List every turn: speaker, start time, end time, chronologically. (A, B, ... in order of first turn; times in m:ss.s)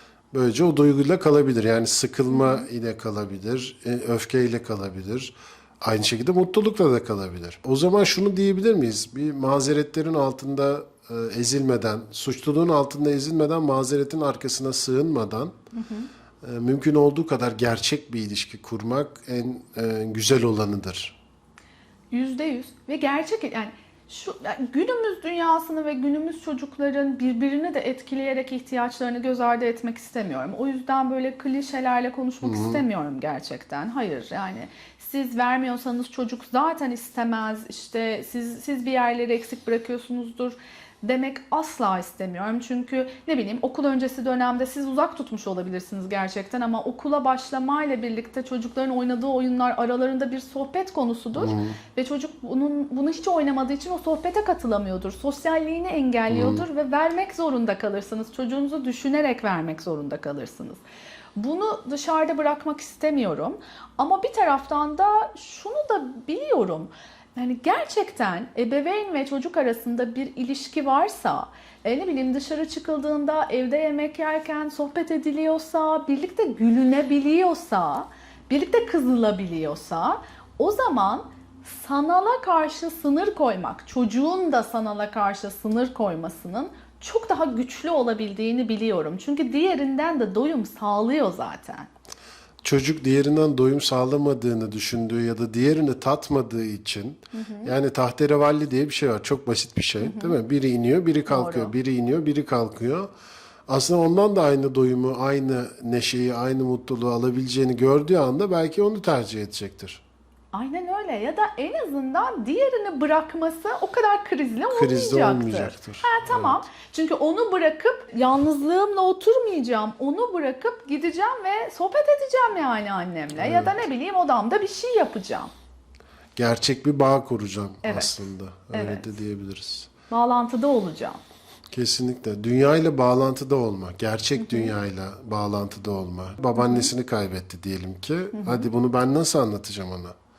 0:00.3-0:15.6 A
0:02.3-0:02.7 B
0:15.7-0:16.1 B
0:16.4-0:21.2 A
0:22.1-1:00.8 B
0:32.4-0:32.8 A
0:51.4-0:51.8 A
0:56.3-0:56.6 A
1:01.4-1:31.9 B
1:32.6-1:43.1 A
1:37.3-1:37.8 B
1:40.0-1:40.4 B
1:41.3-1:41.7 B
1:43.7-1:50.0 A
1:50.5-2:05.5 B
1:54.7-1:56.6 A
2:03.4-2:03.8 A
2:06.4-2:09.9 A
2:07.8-2:08.2 B
2:08.7-2:09.2 B
2:10.1-2:11.2 B
2:11.7-2:20.2 A
2:14.4-2:14.8 B
2:16.6-2:16.9 B
2:18.3-2:18.7 B